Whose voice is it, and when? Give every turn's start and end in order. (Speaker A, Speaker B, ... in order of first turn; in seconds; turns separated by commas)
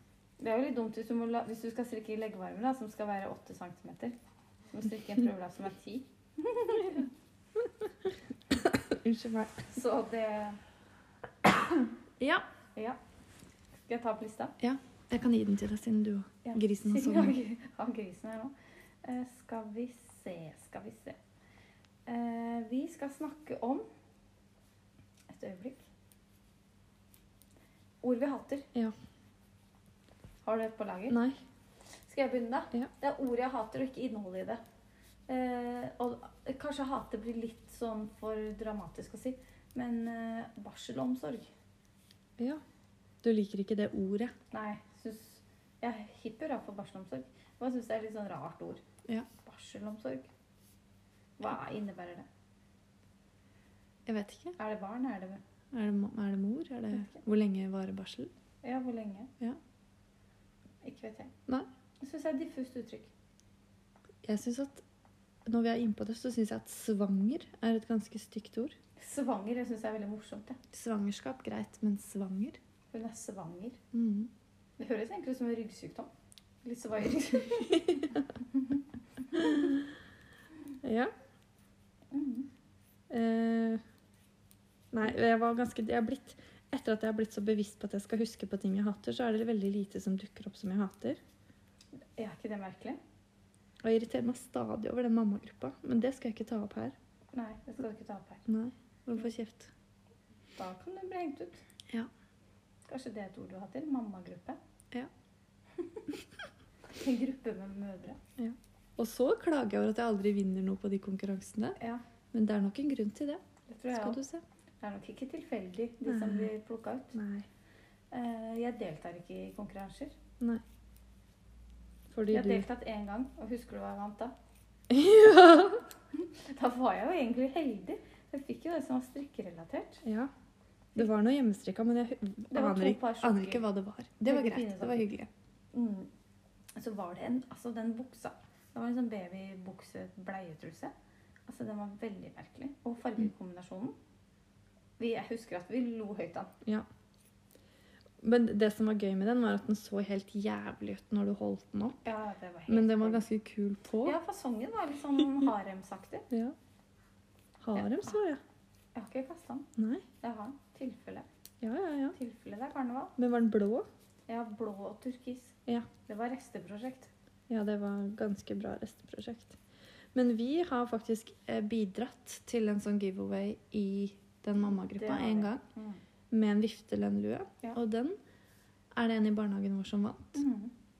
Speaker A: 0.4-4.1, Speaker A: 4.7-7.1, Speaker B: 8.5-9.7, Speaker A: 9.7-10.6, Speaker B: 12.2-12.4, Speaker A: 13.9-14.5, Speaker B: 14.6-17.4, Speaker A: 16.4-21.2, Speaker A: 22.1-23.9, Speaker A: 25.3-25.8, Speaker A: 28.0-28.7, Speaker A: 30.4-31.2, Speaker B: 31.1-31.4, Speaker A: 32.1-34.6, Speaker A: 35.3-41.5, Speaker B: 43.2-44.3, Speaker A: 44.5-48.8, Speaker A: 49.4-50.3, Speaker A: 51.4-52.3, Speaker B: 54.0-54.5, Speaker A: 54.6-55.4, Speaker B: 55.7-58.3, Speaker A: 56.9-57.2, Speaker A: 58.6-59.3, Speaker A: 60.8-61.3, Speaker A: 62.0-63.1, Speaker B: 64.2-64.8, Speaker B: 65.5-68.8, Speaker A: 69.0-70.6, Speaker B: 70.7-72.6, Speaker A: 72.9-73.8, Speaker B: 73.9-74.3, Speaker A: 74.8-76.1, Speaker A: 76.6-79.8, Speaker B: 77.5-78.3, Speaker B: 79.3-79.8, Speaker B: 80.8-81.1, Speaker A: 82.1-82.5, Speaker B: 83.1-83.8, Speaker B: 84.9-91.2, Speaker A: 92.2-93.0, Speaker B: 93.8-97.0, Speaker A: 97.3-98.4, Speaker B: 98.5-99.7, Speaker A: 100.5-101.6, Speaker A: 102.8-104.6, Speaker A: 105.8-106.2, Speaker A: 106.9-108.2, Speaker B: 108.4-111.8, Speaker A: 111.8-112.0, Speaker B: 112.3-113.4, Speaker A: 113.7-114.2, Speaker B: 113.9-114.4, Speaker A: 114.8-117.2, Speaker B: 116.0-116.5, Speaker B: 117.1-117.5, Speaker A: 118.1-120.1, Speaker B: 122.1-122.7, Speaker A: 122.3-124.3, Speaker B: 124.9-125.8, Speaker A: 126.1-130.0, Speaker B: 130.0-130.3, Speaker B: 130.9-135.3, Speaker A: 132.5-133.6, Speaker A: 134.2-135.1, Speaker A: 135.7-136.1, Speaker A: 136.8-140.9, Speaker A: 141.5-143.9, Speaker A: 145.0-146.5, Speaker B: 148.2-152.1, Speaker A: 152.0-153.2, Speaker B: 152.7-154.2, Speaker A: 154.0-156.3, Speaker B: 157.6-158.4, Speaker A: 157.8-158.2, Speaker A: 158.9-159.7, Speaker B: 159.8-160.0, Speaker A: 160.2-161.2, Speaker B: 161.6-162.1, Speaker A: 162.1-163.1, Speaker B: 163.2-163.9, Speaker A: 164.3-167.1, Speaker B: 167.5-169.6, Speaker B: 170.1-175.6, Speaker A: 174.9-176.0, Speaker B: 176.3-178.2, Speaker B: 178.9-180.4, Speaker A: 180.3-180.7